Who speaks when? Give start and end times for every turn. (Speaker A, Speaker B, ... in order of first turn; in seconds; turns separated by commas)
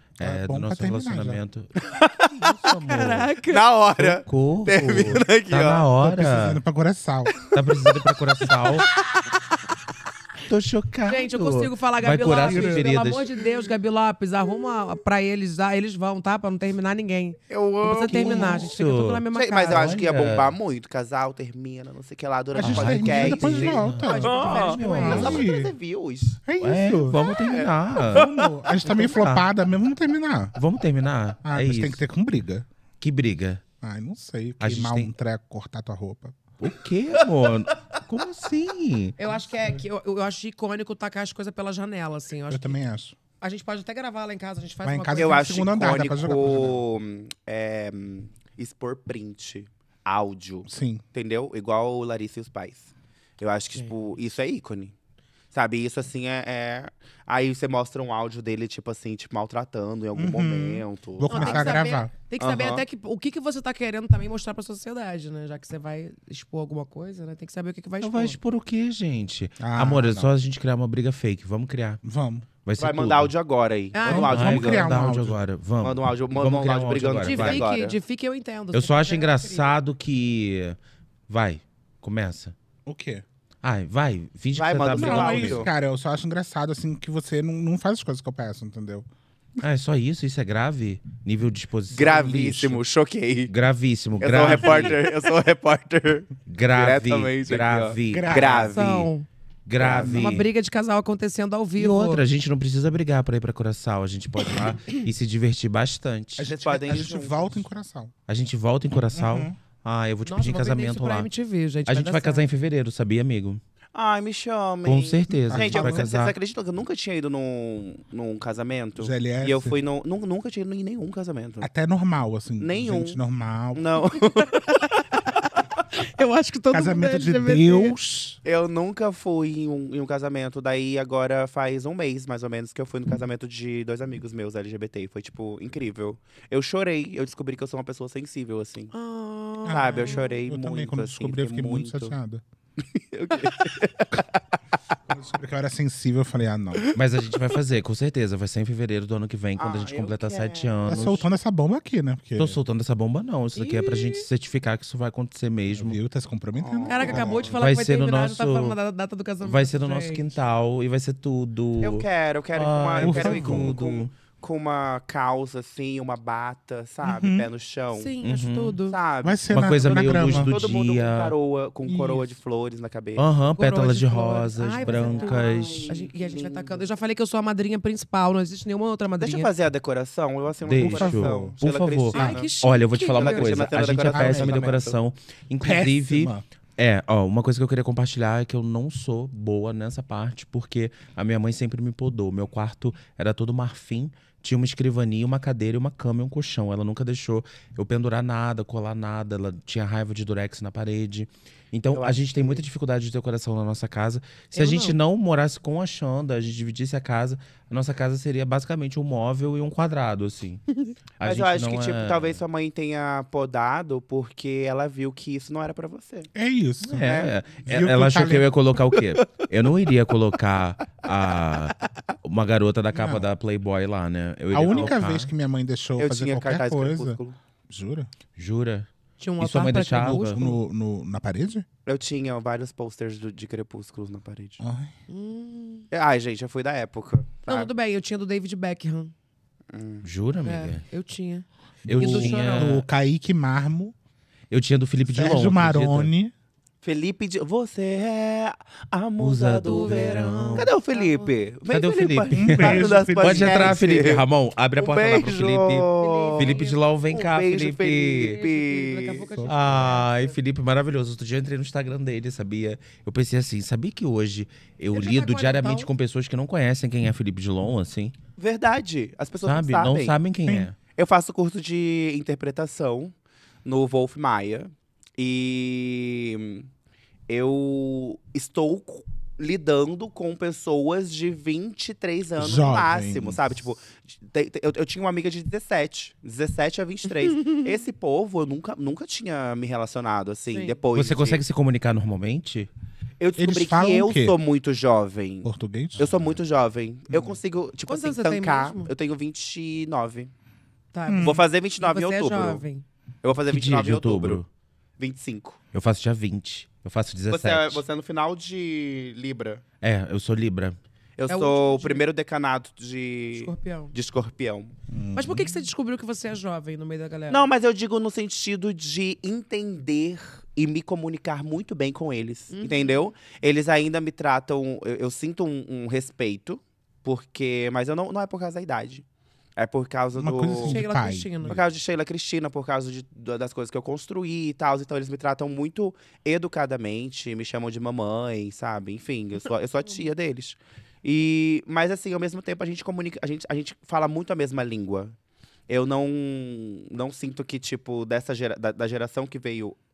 Speaker A: 0.2-1.7, Speaker B: 0.2-1.4, Speaker C: 1.8-2.5, Speaker A: 2.4-3.3, Speaker D: 2.7-3.6, Speaker C: 3.5-5.8, Speaker A: 4.0-6.6, Speaker B: 6.0-7.3, Speaker C: 7.3-8.0, Speaker A: 7.5-8.9, Speaker C: 8.6-9.2, Speaker A: 10.5-13.3, Speaker D: 11.1-19.9, Speaker B: 12.2-12.9, Speaker C: 17.5-18.7, Speaker A: 18.1-20.5, Speaker C: 19.3-26.4, Speaker B: 22.5-25.7, Speaker A: 22.6-25.5, Speaker D: 23.6-25.4, Speaker B: 26.4-27.2, Speaker A: 26.6-28.3, Speaker C: 27.2-28.5, Speaker B: 28.0-30.6, Speaker D: 28.8-29.2, Speaker A: 29.2-29.4, Speaker A: 30.6-32.0, Speaker B: 31.4-32.6, Speaker A: 33.0-33.6, Speaker B: 33.8-36.4, Speaker A: 34.6-35.1, Speaker A: 36.6-39.2, Speaker D: 39.2-42.8, Speaker B: 42.5-43.1, Speaker D: 43.4-45.7, Speaker B: 44.8-46.8, Speaker C: 45.1-52.9, Speaker B: 50.6-51.0, Speaker C: 53.4-54.9, Speaker C: 55.5-61.9, Speaker B: 60.1-62.1, Speaker D: 61.3-68.4, Speaker C: 62.4-62.8, Speaker A: 68.0-72.0, Speaker B: 69.6-70.3, Speaker B: 72.0-72.5, Speaker A: 72.6-73.3, Speaker C: 72.8-74.9, Speaker D: 73.9-74.3, Speaker B: 74.1-75.4, Speaker A: 74.1-77.6, Speaker C: 75.8-78.0, Speaker D: 77.2-79.7, Speaker A: 78.7-80.8, Speaker A: 81.3-82.5, Speaker B: 82.8-83.2, Speaker A: 83.6-85.7, Speaker C: 84.5-85.7, Speaker B: 84.9-89.1, Speaker A: 89.6-92.8, Speaker C: 91.9-93.5, Speaker B: 92.1-92.7, Speaker A: 93.5-95.0, Speaker C: 94.2-99.1, Speaker D: 94.6-95.0, Speaker A: 96.5-98.3, Speaker B: 98.1-98.7, Speaker D: 98.7-99.2, Speaker A: 99.7-100.5, Speaker C: 99.8-100.3, Speaker B: 100.0-100.3, Speaker D: 100.1-102.2, Speaker A: 101.8-106.5, Speaker C: 106.4-107.6, Speaker B: 106.4-108.1, Speaker A: 108.3-111.3, Speaker B: 109.1-109.5, Speaker D: 110.2-112.5, Speaker A: 111.8-113.6, Speaker C: 113.9-121.7, Speaker A: 114.8-116.3, Speaker B: 115.4-116.1, Speaker B: 119.0-119.8, Speaker B: 121.6-124.0, Speaker C: 122.6-123.2, Speaker C: 123.7-124.6, Speaker D: 126.0-127.9, Speaker B: 126.7-128.4, Speaker C: 128.4-138.9, Speaker D: 138.9-140.4, Speaker B: 139.6-142.4, Speaker C: 139.7-142.1, Speaker C: 142.8-144.2, Speaker D: 143.5-143.8, Speaker B: 145.1-146.9, Speaker A: 146.9-151.2, Speaker C: 149.6-151.1, Speaker B: 150.8-152.6, Speaker A: 152.4-156.0, Speaker D: 153.5-154.2, Speaker B: 155.7-157.5, Speaker C: 156.5-157.5, Speaker D: 156.8-160.2, Speaker A: 157.6-158.8, Speaker A: 159.4-164.1, Speaker C: 161.8-168.1, Speaker B: 163.0-163.7, Speaker B: 167.0-167.5, Speaker D: 167.9-169.0, Speaker A: 168.2-168.8, Speaker C: 168.9-173.3, Speaker B: 169.2-170.5, Speaker A: 169.5-171.3, Speaker B: 171.8-172.3, Speaker A: 173.2-175.9, Speaker D: 173.6-179.5, Speaker C: 174.8-176.8, Speaker C: 179.2-182.5, Speaker A: 180.7-210.6, Speaker B: 180.8-181.6, Speaker D: 182.1-183.7, Speaker C: 183.2-185.0, Speaker B: 184.0-184.7, Speaker B: 185.6-186.4, Speaker C: 201.9-202.6, Speaker D: 204.6-204.9, Speaker A: 211.2-212.4, Speaker C: 211.2-216.3, Speaker B: 216.3-218.5, Speaker A: 216.8-225.3, Speaker C: 217.0-217.3, Speaker B: 222.9-223.2, Speaker B: 224.5-228.1, Speaker C: 224.6-224.9, Speaker C: 226.0-227.4, Speaker A: 228.3-230.4, Speaker D: 229.2-230.6, Speaker B: 230.0-231.7, Speaker C: 231.8-234.6, Speaker B: 234.6-234.9, Speaker D: 235.1-235.8, Speaker C: 235.9-237.7, Speaker D: 237.5-239.1, Speaker C: 239.7-240.0, Speaker A: 240.0-240.8, Speaker D: 240.4-242.7, Speaker A: 241.8-242.8, Speaker B: 241.9-243.9, Speaker A: 244.5-246.1, Speaker B: 245.1-246.3, Speaker C: 246.8-254.2, Speaker A: 249.2-250.7, Speaker D: 249.6-251.3, Speaker A: 251.7-258.4, Speaker B: 252.3-253.8, Speaker C: 254.8-259.3, Speaker D: 255.9-256.8, Speaker D: 258.1-260.1, Speaker A: 259.4-268.1, Speaker D: 264.9-265.9, Speaker C: 268.4-270.1, Speaker A: 269.4-270.7, Speaker C: 270.9-276.7, Speaker C: 277.3-291.4, Speaker B: 282.4-283.4, Speaker D: 290.5-290.8, Speaker A: 290.9-292.7, Speaker C: 293.2-300.3, Speaker B: 293.4-294.4, Speaker B: 295.4-296.4, Speaker B: 297.1-297.4, Speaker D: 297.9-298.9, Speaker D: 300.9-302.8, Speaker B: 301.1-301.4, Speaker C: 301.2-302.6, Speaker C: 303.2-304.4, Speaker A: 303.5-304.5, Speaker C: 305.0-305.6, Speaker A: 305.7-307.8, Speaker C: 307.3-309.6, Speaker A: 309.8-310.8, Speaker C: 311.2-314.7, Speaker D: 311.3-312.0, Speaker D: 313.4-313.9, Speaker B: 314.9-315.6, Speaker D: 315.1-317.4, Speaker C: 317.3-329.0, Speaker D: 322.5-323.0, Speaker C: 329.6-330.8, Speaker B: 330.1-331.6, Speaker D: 330.6-331.6, Speaker C: 331.4-345.1, Speaker C: 345.7-349.8